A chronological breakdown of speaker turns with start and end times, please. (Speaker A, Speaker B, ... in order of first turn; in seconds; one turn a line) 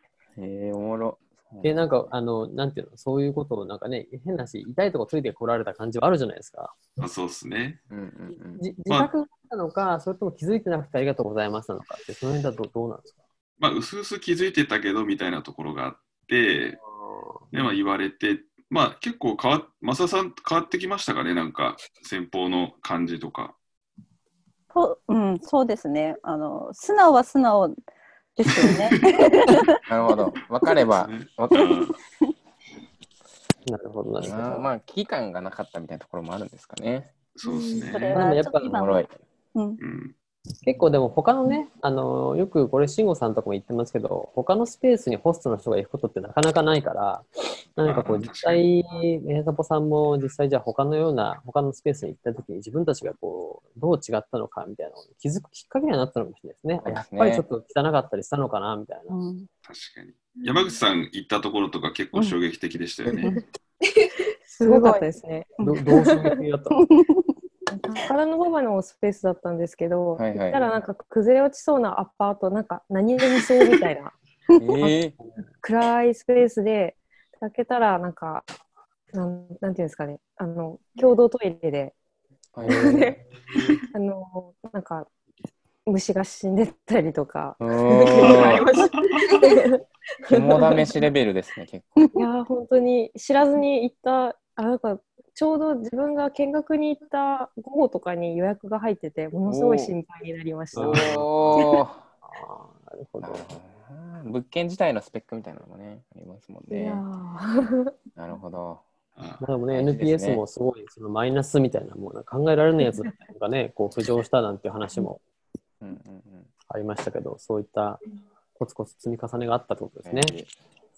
Speaker A: 0.4-1.8
Speaker B: 1.6-6.8
Speaker C: 7.0-7.8
Speaker A: 7.9-8.6
Speaker B: 8.6-13.2
Speaker C: 13.6-16.8
Speaker B: 17.0-17.4
Speaker C: 17.5-23.6
Speaker D: 24.7-27.8
Speaker D: 28.4-29.8
Speaker C: 28.5-29.2
Speaker A: 29.9-31.8
Speaker C: 30.9-32.0
Speaker B: 33.7-34.7
Speaker A: 34.2-37.1
Speaker C: 37.4-38.2
Speaker D: 37.5-39.8
Speaker B: 38.1-38.8
Speaker A: 38.7-39.1
Speaker C: 39.8-40.1
Speaker B: 40.6-47.3
Speaker B: 47.8-59.1
Speaker C: 47.8-48.7
Speaker A: 56.8-57.4
Speaker D: 59.1-59.5
Speaker C: 59.7-63.4
Speaker E: 64.5-66.4
Speaker D: 64.7-65.0
Speaker B: 65.6-66.8
Speaker D: 66.7-67.2
Speaker E: 67.7-74.1
Speaker A: 70.2-70.7
Speaker A: 74.6-75.2
Speaker E: 75.6-78.5
Speaker E: 79.1-82.0
Speaker A: 82.5-83.2
Speaker E: 82.6-83.2
Speaker E: 83.9-85.1
Speaker E: 85.9-90.8
Speaker A: 87.6-88.7
Speaker A: 90.3-92.1
Speaker E: 92.2-101.2
Speaker A: 99.5-100.0
Speaker B: 100.7-101.6
Speaker A: 100.8-102.0
Speaker B: 102.2-103.5
Speaker A: 103.2-107.0
Speaker E: 106.7-107.9
Speaker A: 108.2-108.8
Speaker C: 109.2-109.4
Speaker B: 109.4-115.2
Speaker A: 109.7-110.4
Speaker A: 115.8-116.5
Speaker B: 116.7-118.0
Speaker B: 118.6-120.3
Speaker A: 120.0-120.5